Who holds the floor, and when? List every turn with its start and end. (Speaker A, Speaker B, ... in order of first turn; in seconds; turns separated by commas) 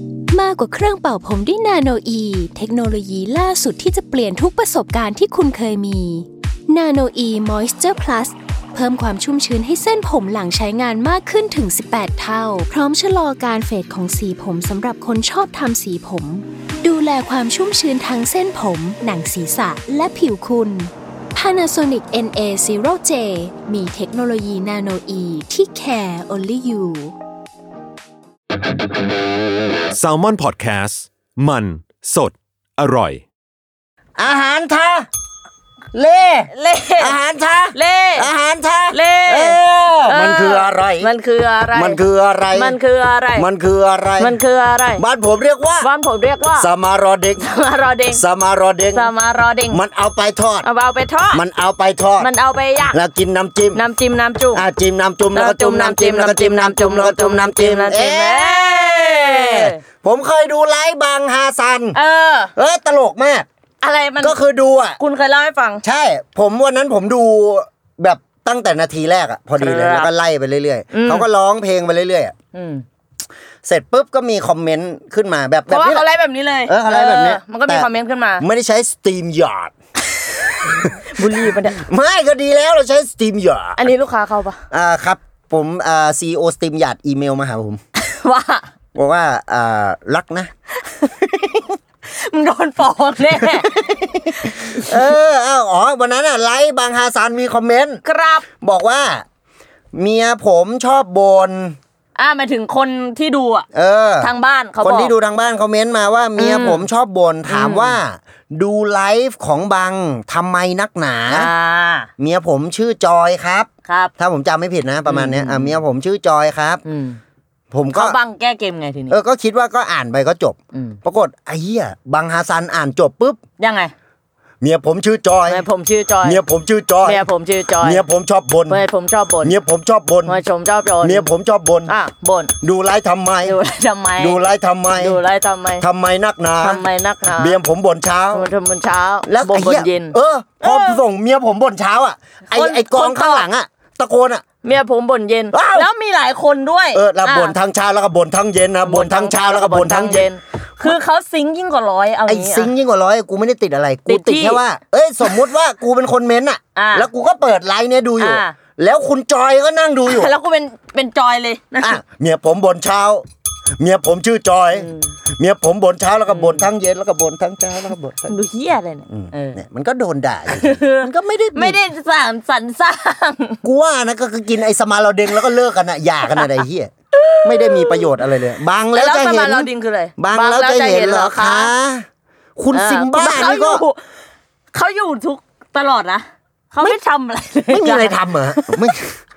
Speaker A: 0.3-27.1, Speaker B: 29.9-33.2, Speaker C: 34.2-35.1, Speaker C: 35.9-41.1, Speaker D: 36.5-37.1, Speaker D: 37.7-38.3, Speaker D: 38.9-42.0, Speaker C: 41.7-42.8, Speaker D: 42.5-43.5, Speaker C: 43.4-44.4, Speaker D: 44.2-45.0, Speaker C: 45.0-45.9, Speaker D: 45.8-46.7, Speaker C: 46.6-47.4, Speaker D: 47.4-48.2, Speaker C: 48.1-49.1, Speaker D: 48.9-49.8, Speaker C: 49.7-50.7, Speaker D: 50.6-51.4, Speaker C: 51.3-52.3, Speaker D: 52.2-53.0, Speaker C: 52.9-53.8, Speaker D: 53.7-54.6, Speaker C: 54.5-62.0, Speaker D: 55.3-59.8, Speaker D: 61.9-62.5, Speaker C: 62.6-63.5, Speaker D: 63.8-64.4, Speaker C: 64.2-65.0, Speaker D: 65.0-65.8, Speaker C: 65.8-72.3, Speaker D: 69.6-70.1, Speaker D: 70.9-71.3, Speaker D: 72.5-72.8, Speaker C: 73.6-76.0, Speaker D: 75.7-78.4, Speaker C: 76.7-77.9, Speaker C: 78.4-79.7, Speaker D: 80.5-81.8, Speaker C: 81.6-83.8, Speaker D: 83.8-84.6, Speaker C: 84.7-87.8, Speaker D: 88.0-88.7, Speaker C: 89.0-90.5, Speaker C: 91.2-91.7, Speaker D: 92.1-95.1, Speaker C: 93.3-98.0, Speaker D: 98.0-98.5, Speaker C: 98.6-99.2, Speaker C: 100.0-101.8, Speaker D: 102.2-103.7, Speaker C: 103.7-111.5, Speaker D: 104.2-105.1, Speaker D: 106.4-106.8, Speaker D: 107.5-108.0, Speaker D: 111.3-112.1, Speaker C: 112.2-116.8, Speaker D: 113.9-114.1, Speaker D: 115.1-115.8, Speaker D: 116.8-117.2, Speaker C: 117.7-118.2, Speaker D: 117.9-119.2, Speaker C: 119.1-123.4, Speaker D: 120.7-121.0, Speaker D: 123.6-123.9, Speaker C: 124.6-125.6, Speaker D: 125.5-126.4, Speaker C: 126.2-127.3, Speaker D: 127.0-128.0, Speaker C: 127.8-128.8, Speaker D: 128.7-129.6, Speaker C: 129.4-130.4, Speaker D: 130.3-131.3, Speaker C: 131.0-131.9, Speaker D: 131.9-132.5, Speaker C: 132.6-133.6, Speaker D: 133.4-134.4, Speaker C: 134.2-135.2, Speaker D: 135.0-135.8, Speaker C: 135.8-136.8, Speaker D: 136.6-137.6, Speaker C: 137.4-138.5, Speaker D: 138.3-141.0, Speaker C: 139.3-144.4, Speaker D: 142.5-143.5, Speaker D: 144.6-147.6, Speaker C: 145.5-145.9, Speaker C: 146.9-150.3, Speaker D: 148.8-152.7, Speaker C: 152.3-160.3, Speaker D: 154.1-154.6, Speaker D: 156.8-157.1, Speaker D: 158.2-158.6, Speaker D: 160.1-162.0, Speaker C: 161.8-163.3, Speaker C: 163.8-168.4, Speaker D: 164.7-165.2, Speaker D: 166.3-166.7, Speaker D: 168.3-169.6, Speaker C: 169.1-171.8, Speaker D: 170.5-173.6, Speaker C: 173.6-176.9, Speaker D: 176.3-178.1, Speaker C: 177.4-182.1, Speaker D: 178.9-181.7, Speaker C: 182.6-183.8, Speaker D: 182.7-184.0, Speaker D: 184.7-188.9, Speaker C: 187.7-189.2